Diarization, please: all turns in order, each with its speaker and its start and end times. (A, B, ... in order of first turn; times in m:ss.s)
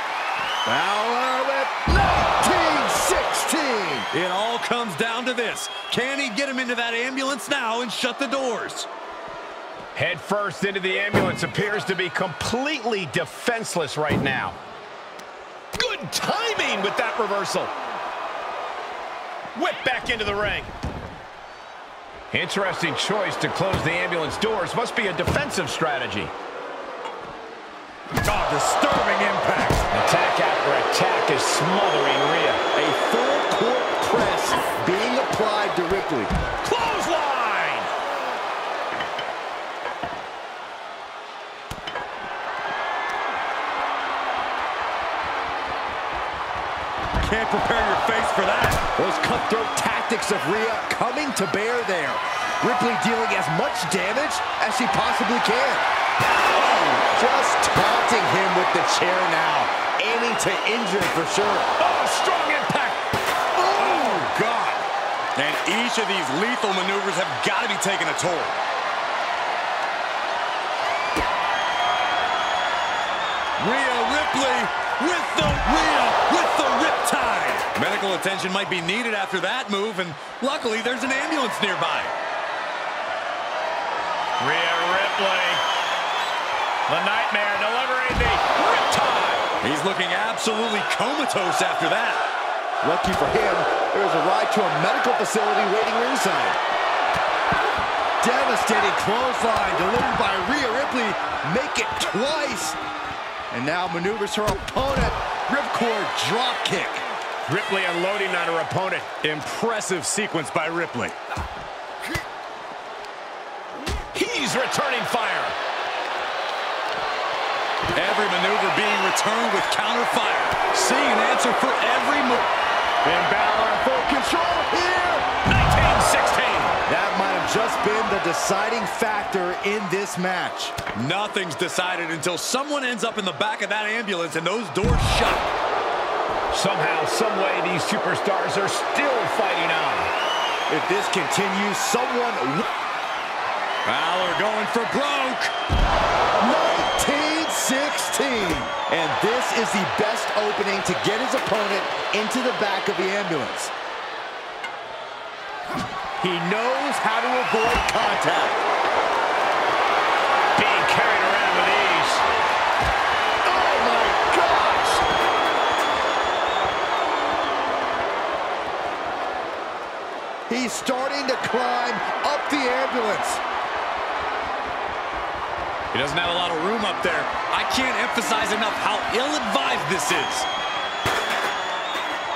0:00.6-0:04.1 A
0:04.1-0:08.9 B
0:09.9-0:14.6 C
0:15.7-0:17.7 C
0:19.5-0:20.7 C
0:22.3-0:26.3 C
0:28.2-0:29.9 B
0:29.9-0:32.6 C
0:32.7-0:36.3 A
0:36.6-0:37.9 C
0:47.2-0:48.9 B
0:48.9-0:55.9 A
0:56.6-0:57.0 B
0:57.1-1:01.7 A
1:01.8-1:02.9 C
1:03.6-1:04.2 A
1:03.7-1:08.6 B
1:13.6-1:22.1 B
1:24.4-1:25.6 C
1:26.9-1:29.4 C
1:29.6-1:32.2 B
1:32.8-1:36.6 A
1:38.2-1:42.8 A
1:43.5-1:47.0 A
1:47.5-1:49.2 C
1:49.2-1:51.2 B
1:54.1-1:55.6 C
1:57.9-2:02.5 B
2:03.0-2:05.3 A
2:05.4-2:06.8 C
2:06.8-2:10.8 A
2:10.9-2:15.5 B
2:16.5-2:20.1 C
2:20.7-2:22.7 A
2:23.8-2:25.5 B
2:26.4-2:33.7 A
2:36.2-2:38.6 A
2:40.6-2:42.2 C
2:43.4-2:45.0 A
2:50.5-2:53.4 A
2:55.9-3:00.4 B